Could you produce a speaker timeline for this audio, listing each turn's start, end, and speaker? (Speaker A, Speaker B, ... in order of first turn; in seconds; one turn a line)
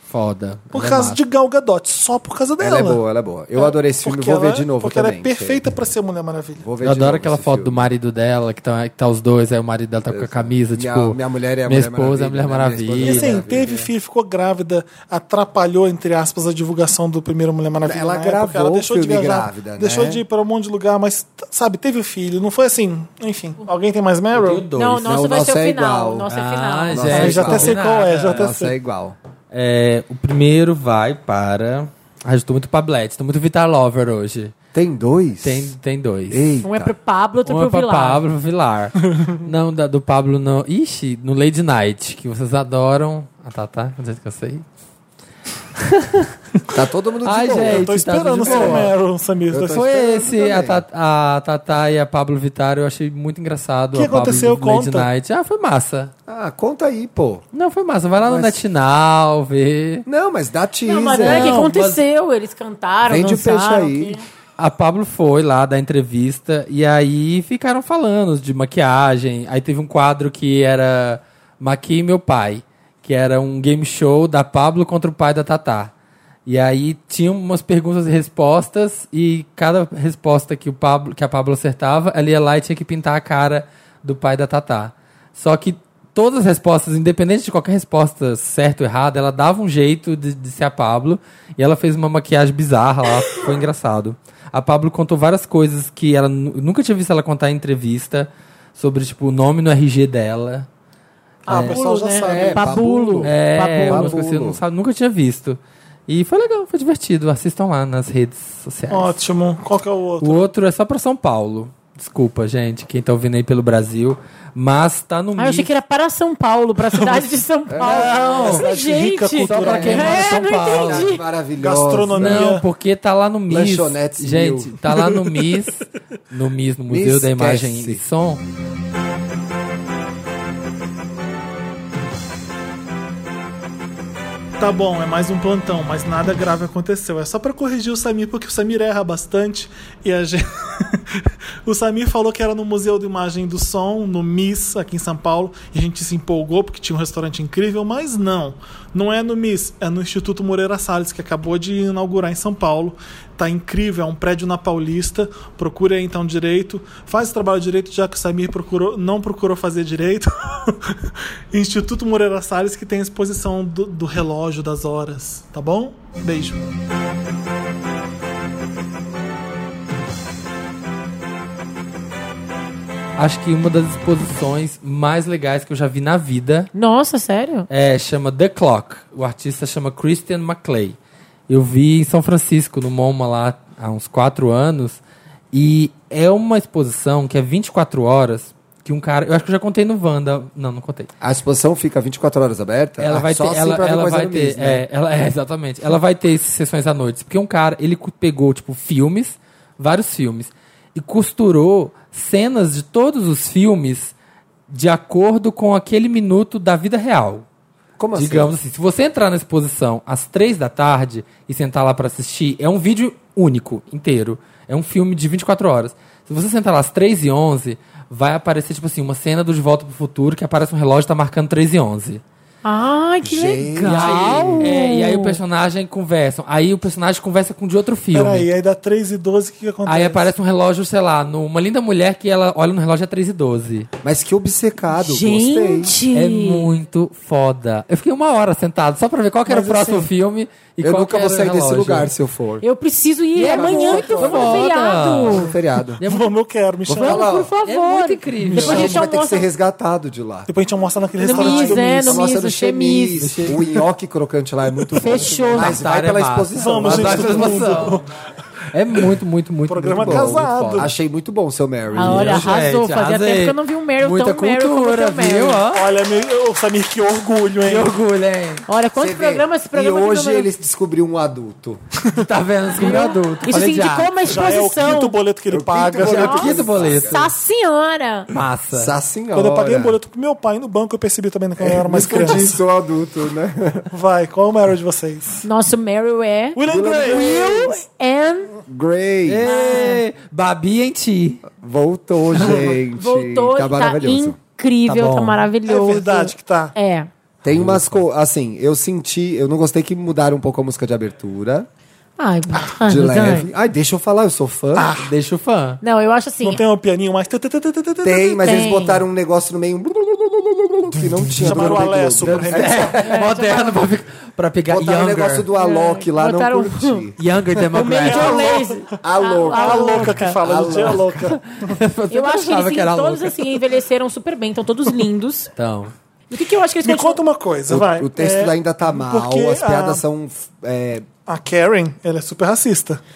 Speaker A: 0.1-1.2
Speaker B: 0.7-3.0
Speaker C: 2.6-5.6
Speaker B: 3.5-6.6
Speaker C: 6.6-7.9
Speaker A: 6.8-13.7
Speaker C: 10.1-13.9
Speaker B: 13.0-24.6
Speaker C: 17.8-20.2
Speaker A: 24.3-25.1
Speaker D: 24.8-27.5
Speaker C: 25.0-26.3
Speaker A: 26.3-28.5
Speaker C: 26.9-29.1
Speaker B: 27.1-28.7
Speaker A: 29.5-34.5
Speaker C: 34.7-35.7
Speaker A: 35.4-36.4
Speaker C: 36.3-36.9
Speaker D: 36.6-38.2
Speaker A: 37.5-44.6
Speaker A: 45.8-46.4
Speaker C: 46.7-47.9
Speaker A: 47.2-48.9
Speaker B: 47.6-49.9
Speaker C: 48.4-48.9
Speaker C: 49.5-50.8
Speaker A: 49.6-56.1
Speaker B: 53.9-55.1
Speaker C: 56.3-57.4
Speaker A: 57.5-60.0
Speaker C: 58.2-58.6
Speaker C: 60.0-61.6
Speaker D: 60.8-64.2
Speaker A: 61.2-62.0
Speaker C: 63.0-64.2
Speaker A: 64.6-75.9
Speaker A: 76.5-100.7
Speaker B: 101.5-102.7
Speaker D: 101.5-104.2
Speaker C: 101.5-104.6
Speaker A: 101.5-101.7
Speaker A: 103.2-109.1
Speaker B: 108.9-110.5
Speaker A: 110.2-115.7
Speaker D: 115.4-121.2
Speaker B: 116.9-120.3
Speaker C: 117.7-118.7
Speaker C: 119.4-122.5
Speaker A: 119.5-121.1
Speaker B: 121.6-122.6
Speaker A: 122.1-128.4
Speaker C: 123.5-124.8
Speaker C: 126.9-128.0
Speaker B: 134.6-166.6
Speaker A: 173.2-176.7
Speaker D: 176.7-177.7
Speaker A: 177.7-180.9
Speaker A: 181.5-185.0
Speaker A: 185.5-191.1
Speaker C: 191.2-194.8
Speaker A: 193.0-204.1
Speaker A: 204.7-207.4
Speaker C: 208.0-208.5
Speaker A: 208.1-222.2
Speaker D: 222.6-225.4
Speaker C: 223.2-224.7
Speaker A: 223.8-228.5
Speaker B: 228.1-230.3
Speaker A: 229.8-233.9
Speaker C: 234.0-235.9
Speaker D: 234.9-236.7
Speaker A: 236.1-242.1
Speaker B: 239.5-240.1
Speaker C: 240.8-242.6
Speaker D: 242.6-245.5
Speaker A: 243.3-245.5
Speaker C: 243.5-244.7
Speaker C: 245.2-246.0
Speaker A: 246.0-246.3
Speaker B: 246.0-247.2
Speaker C: 246.9-247.5
Speaker D: 246.9-249.5
Speaker A: 247.6-249.0
Speaker B: 248.4-249.0
Speaker C: 248.5-250.5
Speaker B: 250.5-252.2
Speaker D: 251.2-253.2
Speaker C: 251.4-257.9
Speaker A: 253.2-253.7
Speaker D: 254.9-255.8
Speaker A: 255.5-258.0
Speaker B: 256.5-258.1
Speaker A: 258.7-260.9
Speaker B: 259.7-260.9
Speaker C: 260.0-262.6
Speaker D: 261.9-265.6
Speaker A: 262.0-265.9
Speaker B: 265.7-267.9
Speaker A: 267.6-268.6
Speaker D: 268.7-270.5
Speaker C: 269.0-271.8
Speaker A: 272.1-274.3
Speaker D: 272.7-275.1
Speaker B: 274.2-276.8
Speaker C: 275.5-277.3
Speaker A: 276.0-277.3
Speaker D: 276.2-278.3
Speaker A: 278.3-278.9
Speaker C: 278.7-280.0
Speaker B: 279.3-282.6
Speaker C: 281.6-283.9
Speaker B: 283.9-285.4
Speaker D: 285.4-288.6
Speaker B: 286.5-287.3
Speaker C: 286.6-287.7
Speaker C: 288.7-289.5
Speaker A: 289.2-291.5
Speaker D: 289.4-290.0
Speaker C: 291.5-294.4
Speaker B: 292.4-292.8
Speaker D: 292.9-297.1
Speaker A: 294.9-295.5
Speaker B: 295.6-296.7
Speaker C: 297.4-301.7
Speaker A: 297.5-298.0
Speaker D: 302.2-303.5
Speaker C: 302.8-304.9
Speaker B: 304.7-305.1
Speaker A: 305.0-305.8
Speaker D: 305.8-306.6
Speaker B: 306.4-308.7
Speaker C: 308.0-313.2
Speaker D: 308.4-309.0
Speaker B: 311.3-313.0
Speaker A: 311.4-311.7
Speaker A: 312.2-315.5
Speaker D: 312.9-313.8
Speaker C: 314.7-317.7
Speaker D: 315.5-317.1
Speaker A: 317.2-318.5
Speaker D: 317.7-320.4
Speaker B: 317.9-321.7
Speaker C: 319.0-321.4
Speaker A: 321.2-323.6
Speaker D: 322.1-325.5
Speaker A: 325.6-325.9
Speaker D: 326.3-327.2
Speaker B: 326.8-330.0
Speaker C: 327.7-331.1
Speaker B: 331.2-333.0